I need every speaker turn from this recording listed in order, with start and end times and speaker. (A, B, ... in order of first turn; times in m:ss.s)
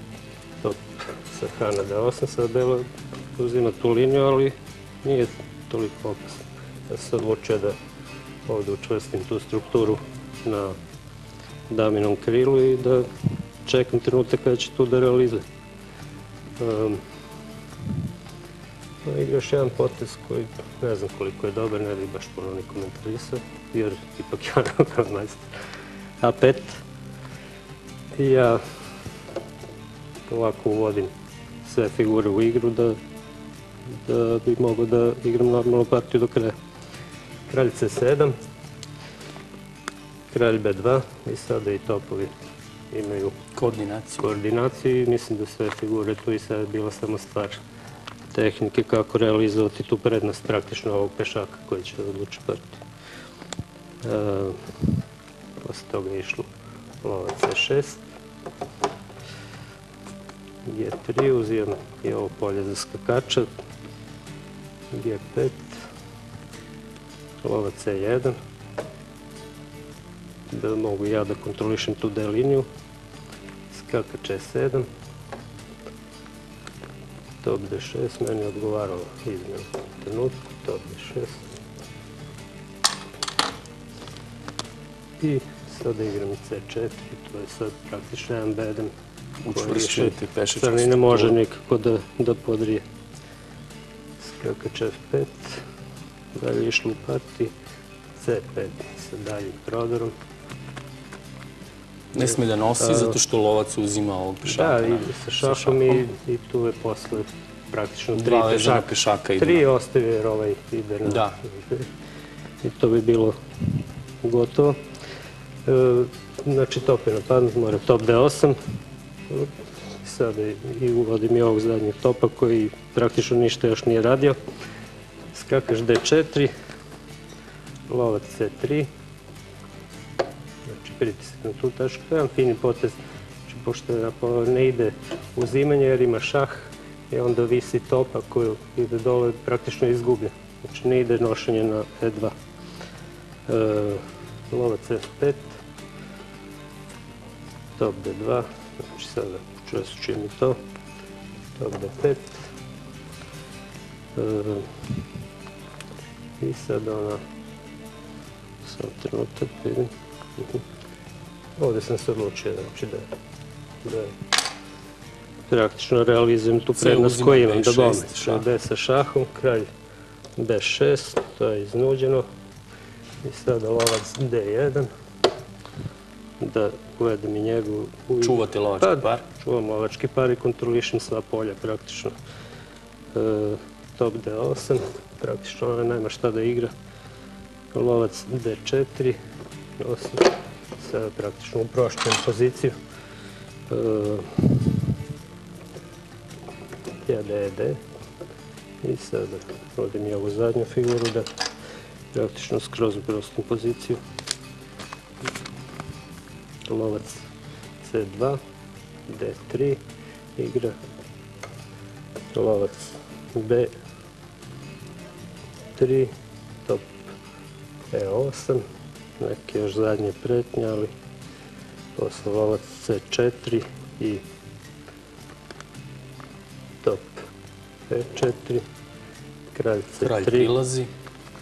0:00.6-0:07.8 A
0:08.4-0:10.8 A
0:11.7-0:13.1 A
0:13.6-0:15.4 A
0:16.6-0:17.0 A
0:19.0-0:25.4 A
0:26.2-0:26.8 A
0:28.1-0:28.6 A
0:30.3-0:31.1 A
0:31.6-0:33.0 A
0:33.9-0:36.5 A
0:37.5-0:38.3 A
0:40.3-0:42.3 A
0:42.9-0:43.4 A
0:43.6-0:44.3 B
0:44.2-0:47.6 A
0:48.3-0:52.8 A
0:54.0-0:54.6 A
0:55.6-0:56.5 A
0:57.0-0:58.1 A
1:00.6-1:03.5 A
1:04.9-1:05.8 A
1:07.4-1:08.4 A
1:10.5-1:12.7 A
1:13.7-1:14.8 A
1:17.4-1:21.4 A
1:25.2-1:28.9 A
1:29.4-1:31.4 B
1:29.5-1:32.8 A
1:34.2-1:35.6 A
1:36.3-1:37.5 A
1:38.2-1:40.1 A
1:42.1-1:46.0 B
1:42.8-1:43.2 A
1:44.4-1:51.9 A
1:48.1-1:49.6 B
1:51.0-1:51.4 B
1:52.6-1:53.4 A
1:54.2-1:54.8 A
1:55.6-1:58.6 A
2:00.0-2:04.4 A
2:05.3-2:06.5 A
2:07.9-2:08.9 A
2:10.6-2:22.3 A
2:23.5-2:25.6 A
2:27.8-2:30.6 A
2:31.6-2:32.4 A
2:34.1-2:34.7 A
2:36.4-2:37.2 A
2:38.6-2:40.6 A
2:41.6-2:43.1 A
2:43.8-2:44.1 A
2:45.5-2:49.7 A
2:46.8-2:48.5 B
2:50.4-2:52.2 A
2:53.2-2:54.9 A
2:56.4-3:02.1 A
2:58.2-2:59.2 B
3:03.1-3:06.7 A
3:07.7-3:09.2 A
3:09.8-3:12.7 A
3:13.7-3:14.7 A
3:17.0-3:17.8 A
3:18.8-3:21.3 A
3:22.1-3:24.0 A
3:26.7-3:27.2 A
3:27.8-3:28.4 A
3:29.1-3:29.8 A
3:30.4-3:30.7 A
3:32.3-3:33.7 A
3:35.8-3:36.1 A
3:36.6-3:37.1 A
3:37.9-3:38.6 A
3:39.2-3:40.9 A
3:42.0-3:44.2 A
3:46.8-3:47.2 A
3:47.9-3:48.6 A
3:49.5-3:50.5 A
3:50.0-3:50.9 B